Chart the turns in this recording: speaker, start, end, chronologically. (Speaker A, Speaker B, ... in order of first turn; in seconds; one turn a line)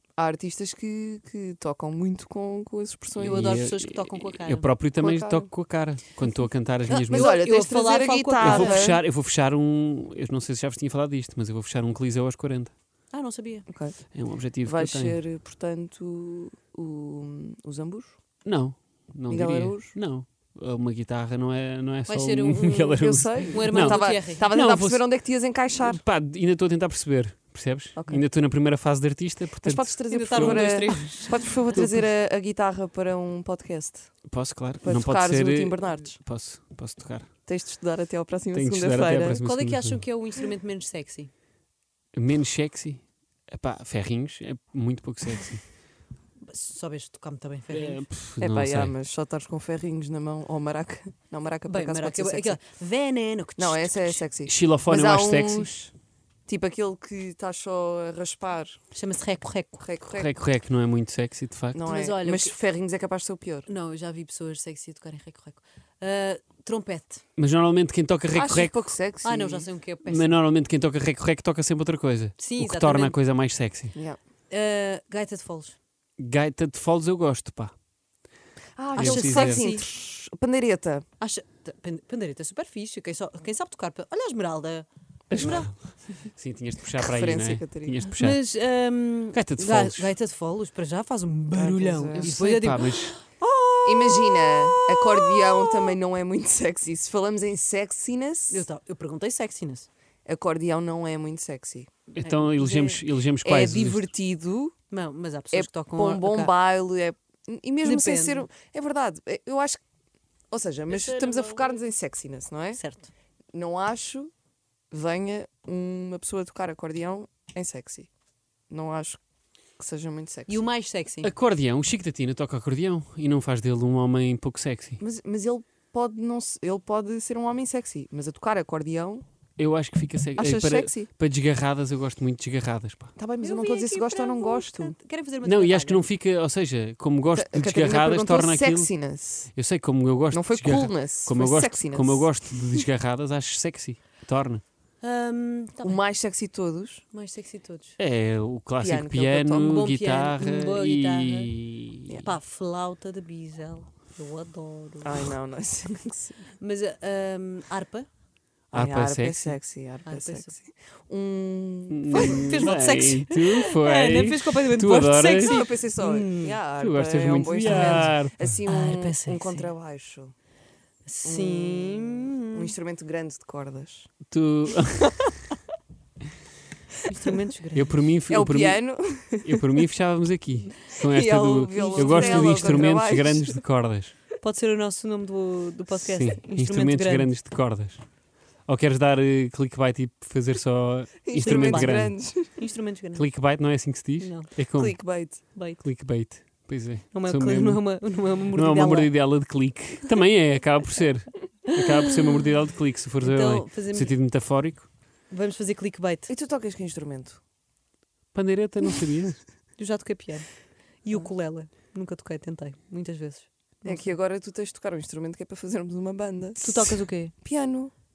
Speaker A: 0.2-3.6
Speaker B: 3.2-7.3
Speaker C: 3.2-4.7
Speaker A: 5.0-5.5
Speaker C: 6.9-8.8
Speaker A: 6.9-9.0
Speaker B: 8.4-12.7
Speaker C: 13.1-13.7
Speaker A: 13.7-14.0
Speaker B: 14.1-15.2
Speaker A: 14.6-18.2
Speaker B: 18.4-25.1
Speaker A: 19.3-20.0
Speaker C: 22.1-23.0
Speaker A: 22.9-26.0
Speaker C: 23.5-24.5
Speaker B: 25.8-30.9
Speaker A: 27.9-28.2
Speaker A: 29.6-34.1
Speaker C: 30.1-31.7
Speaker B: 31.7-32.0
Speaker B: 34.3-37.3
Speaker A: 34.8-36.2
Speaker A: 37.5-39.4
Speaker B: 38.5-40.0
Speaker C: 39.3-41.3
Speaker B: 42.1-45.6
Speaker C: 46.4-48.0
Speaker B: 47.7-48.9
Speaker A: 48.4-52.6
Speaker C: 51.7-54.2
Speaker A: 53.6-55.9
Speaker B: 54.5-55.7
Speaker A: 56.5-58.8
Speaker C: 58.9-59.8
Speaker A: 59.8-60.3
Speaker B: 60.1-61.8
Speaker A: 61.7-63.7
Speaker C: 61.9-62.5
Speaker C: 63.7-67.2
Speaker B: 67.4-68.9
Speaker A: 68.3-69.7
Speaker C: 69.2-70.4
Speaker B: 70.0-73.9
Speaker C: 72.4-73.2
Speaker C: 74.5-75.8
Speaker B: 76.2-77.7
Speaker A: 78.8-81.1
Speaker B: 79.0-79.7
Speaker C: 79.0-79.8
Speaker C: 81.2-85.7
Speaker B: 85.3-88.4
Speaker A: 87.0-88.0
Speaker C: 88.1-95.9
Speaker B: 89.3-90.1
Speaker A: 91.5-92.4
Speaker B: 92.2-93.2
Speaker A: 93.8-98.7
Speaker C: 98.5-99.9
Speaker A: 100.3-101.9
Speaker B: 102.1-104.1
Speaker C: 102.2-103.0
Speaker A: 103.4-104.8
Speaker C: 104.9-106.5
Speaker A: 105.5-109.8
Speaker C: 107.8-108.5
Speaker A: 110.5-112.8
Speaker C: 110.9-111.8
Speaker C: 112.8-113.1
Speaker A: 113.5-114.3
Speaker A: 114.9-118.1
Speaker A: 118.7-119.2
Speaker A: 119.8-120.6
Speaker C: 120.5-121.3
Speaker B: 121.2-125.0
Speaker A: 125.0-129.2
Speaker B: 129.6-133.1
Speaker A: 130.4-131.1
Speaker A: 133.2-135.0
Speaker C: 133.4-136.1
Speaker B: 135.4-138.9
Speaker A: 137.3-139.5
Speaker B: 139.5-144.6
Speaker A: 140.3-142.8
Speaker C: 145.0-146.0
Speaker A: 145.8-147.0
Speaker C: 147.1-148.0
Speaker B: 148.0-152.2
Speaker A: 148.8-149.8
Speaker C: 149.7-151.5
Speaker C: 152.2-155.2
Speaker A: 155.0-156.5
Speaker C: 156.6-158.1
Speaker B: 158.7-159.6
Speaker A: 158.7-162.7
Speaker C: 160.1-160.5
Speaker B: 161.9-165.8
Speaker C: 162.1-166.6
Speaker A: 165.4-170.3
Speaker B: 166.8-168.6
Speaker C: 167.6-169.7
Speaker C: 171.1-172.7
Speaker A: 171.2-174.1
Speaker B: 174.3-175.3
Speaker C: 177.1-178.0
Speaker B: 177.7-184.1
Speaker A: 178.3-179.6
Speaker A: 180.9-183.6
Speaker C: 181.7-182.9
Speaker C: 184.4-187.3
Speaker B: 185.9-188.0
Speaker B: 188.7-192.2
Speaker A: 191.2-192.5
Speaker C: 191.4-193.3
Speaker B: 193.1-195.0
Speaker C: 194.2-194.5
Speaker A: 194.8-195.4
Speaker C: 195.6-195.8
Speaker B: 195.8-197.8
Speaker C: 197.1-199.1
Speaker B: 198.5-204.9
Speaker C: 201.8-202.2
Speaker C: 203.2-204.1
Speaker C: 205.3-206.3
Speaker A: 206.3-207.4
Speaker B: 208.3-209.4
Speaker C: 209.8-210.5
Speaker C: 211.0-214.1
Speaker A: 213.8-217.9
Speaker C: 216.6-217.3